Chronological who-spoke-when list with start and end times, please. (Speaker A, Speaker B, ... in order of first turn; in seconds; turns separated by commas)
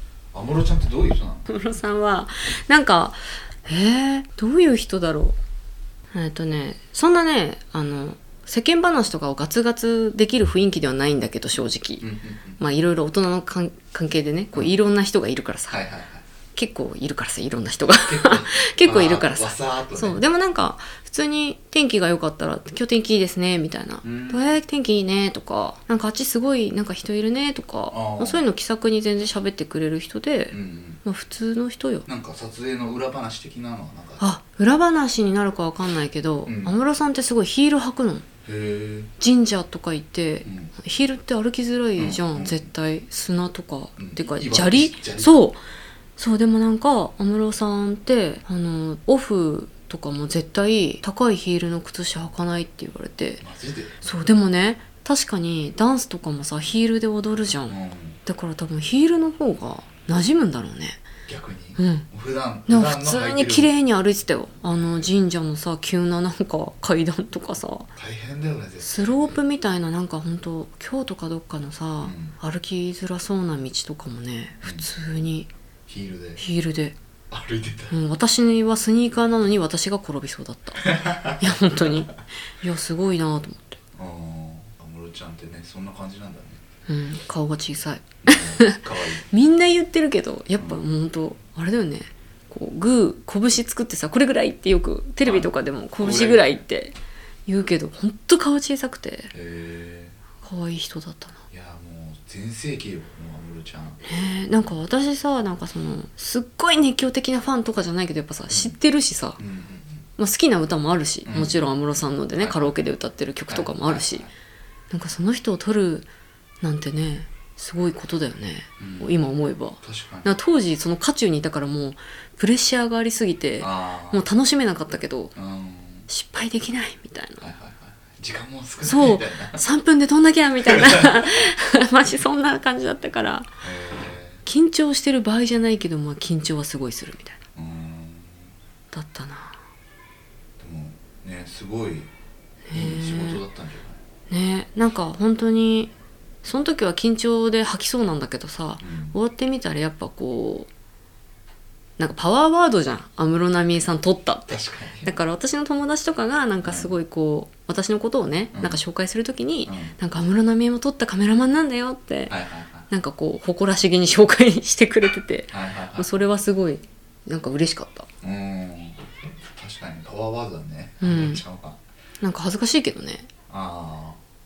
Speaker A: 0.3-1.5, Speaker B: 1.4-5.4, Speaker B: 6.1-12.0, Speaker A: 12.0-12.6, Speaker B: 12.6-15.8, Speaker A: 15.7-16.2, Speaker B: 16.6-32.1, Speaker A: 18.1-20.2, Speaker A: 24.0-24.6, Speaker A: 27.9-28.4, Speaker A: 30.5-31.0, Speaker A: 32.0-34.3, Speaker B: 34.2-38.2, Speaker A: 36.5-36.7, Speaker A: 38.4-39.1, Speaker B: 39.2-45.6, Speaker A: 40.4-40.7, Speaker A: 42.0-42.7, Speaker A: 44.0-45.3, Speaker B: 46.2-53.4, Speaker A: 53.4-54.0, Speaker B: 54.0-57.7, Speaker A: 57.7-58.2, Speaker B: 58.2-61.0, Speaker A: 61.2-63.7, Speaker B: 61.8-62.1, Speaker B: 62.7-67.9, Speaker A: 64.7-65.1, Speaker A: 67.9-69.4, Speaker B: 68.8-75.5, Speaker A: 72.0-72.3, Speaker A: 74.6-74.9, Speaker A: 75.9-76.4, Speaker B: 76.4-77.0, Speaker A: 77.3-78.0, Speaker B: 77.9-80.8, Speaker A: 80.8-82.0, Speaker B: 81.4-83.8, Speaker A: 83.9-86.6, Speaker B: 86.9-99.3, Speaker A: 88.2-89.2, Speaker A: 95.2-96.6, Speaker A: 99.3-100.2, Speaker B: 100.4-101.4, Speaker A: 101.5-104.0, Speaker B: 104.0-109.4, Speaker A: 108.5-108.7, Speaker A: 109.4-110.1, Speaker B: 110.2-114.2, Speaker A: 111.2-111.7, Speaker A: 112.4-112.7, Speaker A: 113.5-114.3, Speaker B: 114.9-116.1, Speaker B: 116.6-125.3, Speaker A: 118.8-119.2, Speaker A: 119.8-120.3, Speaker A: 123.6-124.2, Speaker A: 125.3-126.1, Speaker B: 126.1-127.5, Speaker A: 127.4-129.6, Speaker B: 128.8-133.5, Speaker A: 133.6-134.4, Speaker B: 134.4-137.4, Speaker A: 137.6-138.5, Speaker B: 138.9-139.6, Speaker A: 140.6-142.1, Speaker B: 142.7-143.4, Speaker A: 142.7-144.0, Speaker B: 144.3-145.9, Speaker B: 146.4-150.7, Speaker A: 148.8-149.1, Speaker B: 152.0-162.3, Speaker A: 154.5-155.2, Speaker A: 156.6-157.0, Speaker A: 158.5-158.8, Speaker A: 159.7-160.0, Speaker A: 162.3-162.9, Speaker B: 162.9-168.1, Speaker A: 165.5-166.2, Speaker A: 168.2-171.8, Speaker B: 171.0-171.4, Speaker B: 172.2-173.3, Speaker A: 173.5-174.2